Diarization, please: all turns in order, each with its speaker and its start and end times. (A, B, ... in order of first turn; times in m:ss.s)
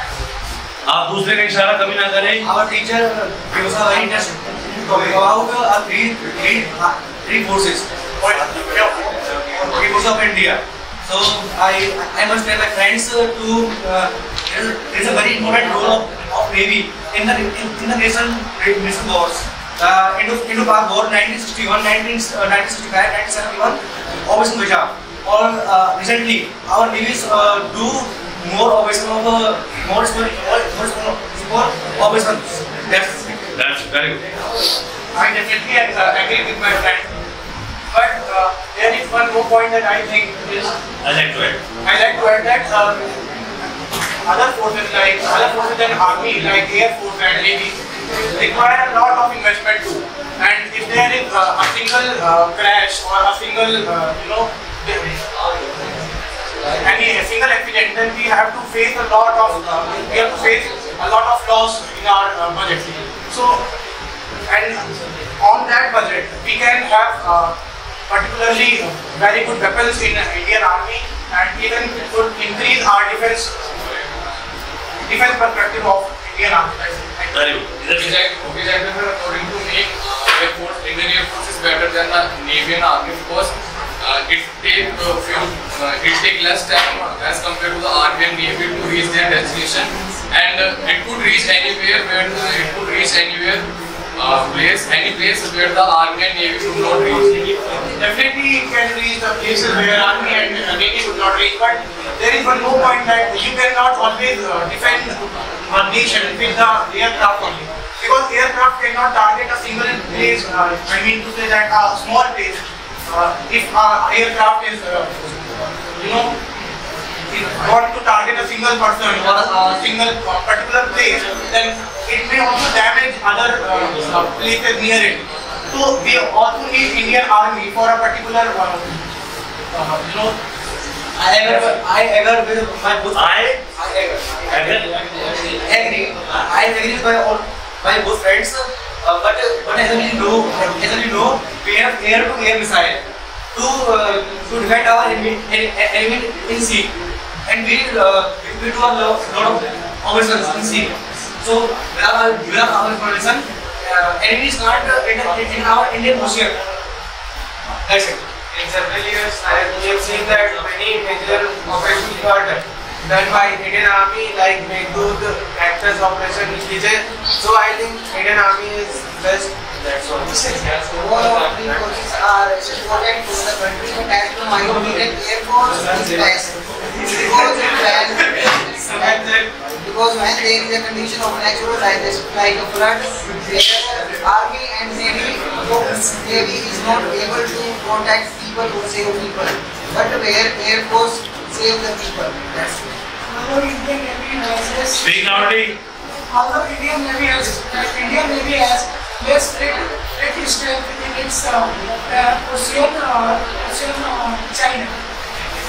0:00.9-0:02.4 A
0:02.4-0:07.9 B
0:08.2-0:09.6 C
0:09.6-0:33.3 B
0:33.5-0:34.2 A
0:35.1-0:37.0 C
0:37.9-0:40.7 C
0:41.0-0:41.6 A
0:41.8-0:43.0 C
0:44.3-0:47.7 C
0:48.4-0:55.2 C
0:56.8-1:03.6 C
1:04.5-1:04.8 C
1:05.4-1:07.5 C
1:08.1-1:13.6 C
1:15.0-1:17.3 C
1:17.3-1:18.2 A
1:17.9-1:37.4 D
1:37.9-1:45.2 C
1:45.7-1:55.2 C
1:56.0-1:56.4 C
1:57.3-2:08.8 C
2:09.8-2:10.2 C
2:11.2-2:13.6 B
2:13.2-2:13.6 A
2:14.5-2:14.9 A
2:15.5-2:23.0 B
2:23.5-2:26.9 B
2:27.4-2:36.6 B
2:37.8-2:38.2 B
2:38.5-2:50.6 E
2:50.9-2:56.5 F
2:57.0-2:59.3 F
2:57.2-2:57.7 E
2:59.0-2:59.5 E
2:59.8-3:12.8 F
3:13.3-3:15.6 G
3:15.0-3:15.8 A
3:16.3-3:25.0 G